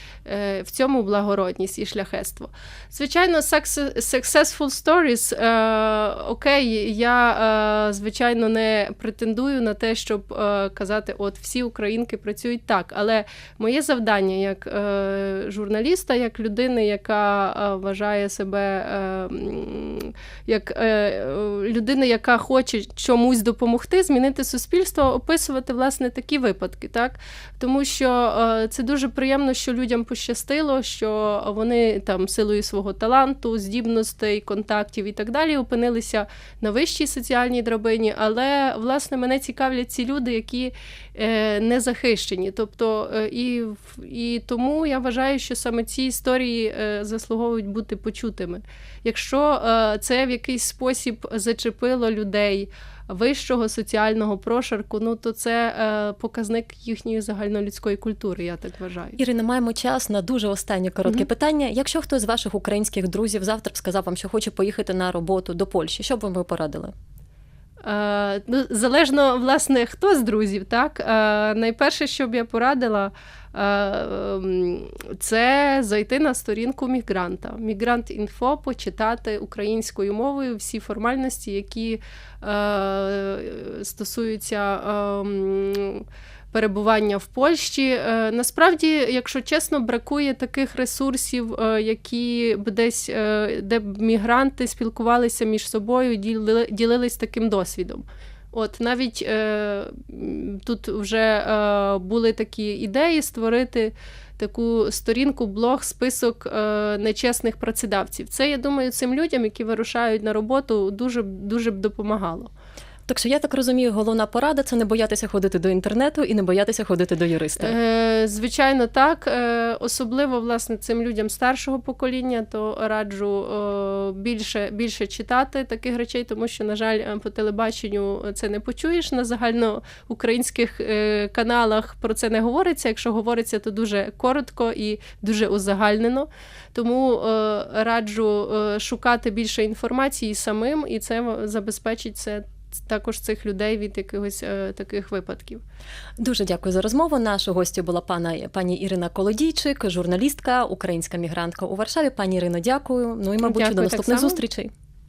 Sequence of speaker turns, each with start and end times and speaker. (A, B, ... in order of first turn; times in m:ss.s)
0:00.2-0:59.2 A
0:59.2-1:06.9 B
1:07.8-1:52.5 A
1:53.1-1:57.7 B
1:57.6-2:25.6 A
2:26.2-2:34.7 B
2:33.4-2:34.4 A